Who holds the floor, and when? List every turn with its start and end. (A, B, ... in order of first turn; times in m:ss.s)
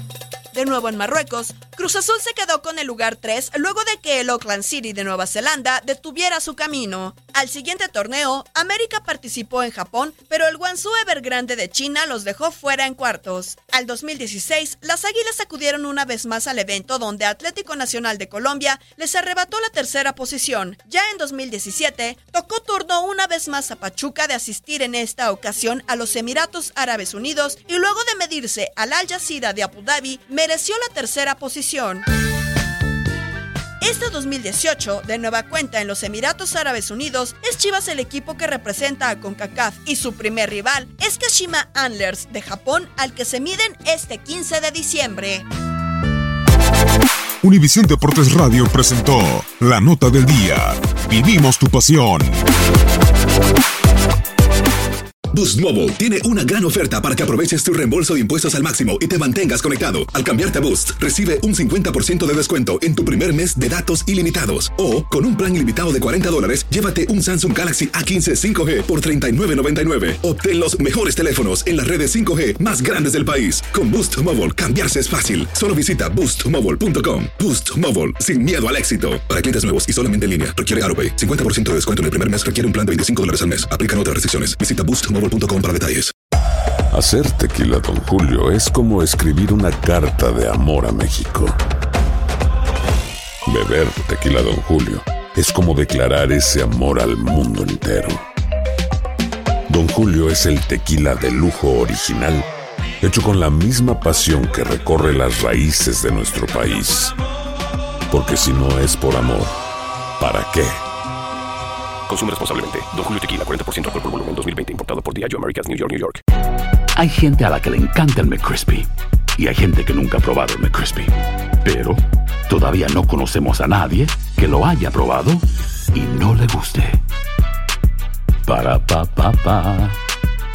0:00.5-0:32.1 A
0:33.8-0:45.4 A
0:47.4-0:52.4 B
0:55.3-1:26.1 C
1:26.9-1:31.6 D
1:33.5-1:38.2 D
1:39.7-1:42.5 D
1:43.0-1:47.2 D
1:48.1-1:49.6 D
1:50.2-1:50.8 D
1:52.1-1:56.2 E
1:57.0-2:07.0 F
2:08.5-2:10.0 F